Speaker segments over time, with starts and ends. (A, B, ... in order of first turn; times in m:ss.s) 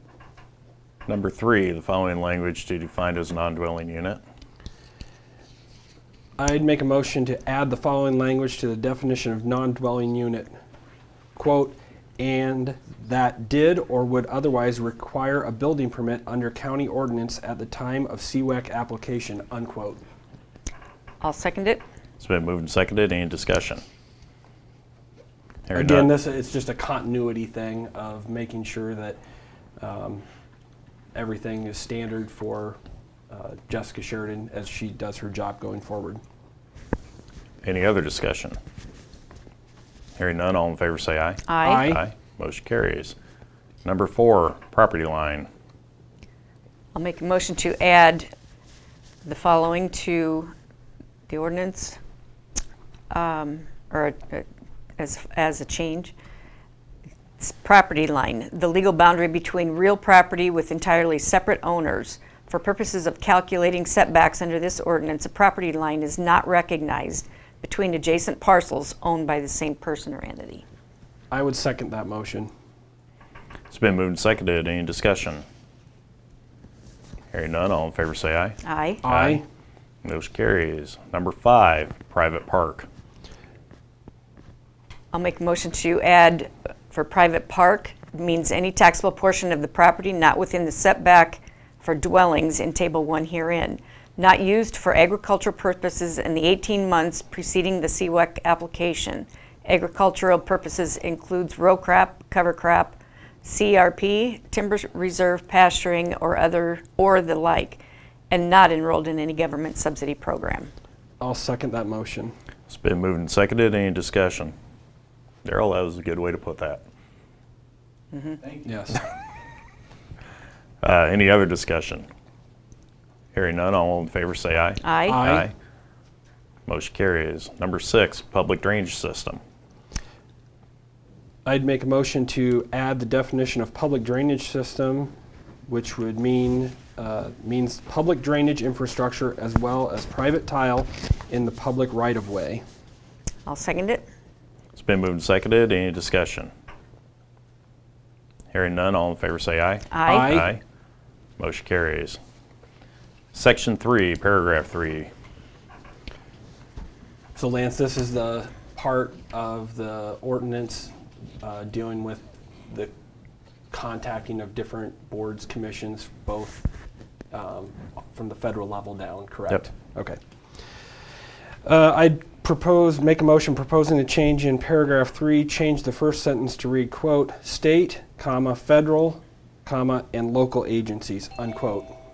0:01.1-0:04.2 A
0:06.4-0:10.5 B
0:11.4-0:20.0 B
0:21.2-0:21.8 C
0:22.2-0:23.8 A
0:25.7-0:26.1 A
0:25.7-0:29.2 B
0:29.8-0:30.2 B
0:31.1-0:32.8 B
0:33.3-0:36.2 B
0:37.6-0:38.6 A
0:40.2-0:43.2 A
0:41.5-0:41.9 C
0:41.6-0:42.0 B
0:43.8-0:45.5 A
0:47.0-0:48.3 C
0:49.2-0:50.5 C
0:51.3-0:52.0 C
0:53.1-0:54.5 C
0:55.0-0:56.1 C
0:57.4-1:10.6 C
1:11.3-1:12.5 B
1:13.7-1:15.4 A
1:17.3-1:19.4 A
1:18.6-1:19.0 C
1:19.0-1:19.4 B
1:20.0-1:22.9 A
1:25.1-1:50.7 C
1:51.2-1:52.3 B
1:52.7-1:54.5 A
1:55.4-1:56.8 A
1:58.1-1:58.4 C
1:58.6-1:59.0 B
2:00.8-2:02.1 A
2:03.3-2:05.5 A
2:04.8-2:05.2 C
2:05.1-2:05.5 B
2:06.7-2:09.4 A
2:11.4-2:15.1 B
2:15.7-2:22.6 B
2:23.5-2:24.1 C
2:24.7-2:26.5 A
2:28.5-2:30.6 A
2:29.9-2:30.4 C
2:30.1-2:30.5 B
2:31.4-2:32.2 A
2:33.3-2:35.1 A
2:37.4-2:42.9 B
2:43.7-2:46.7 B
2:47.3-2:50.2 B
2:51.6-3:01.9 B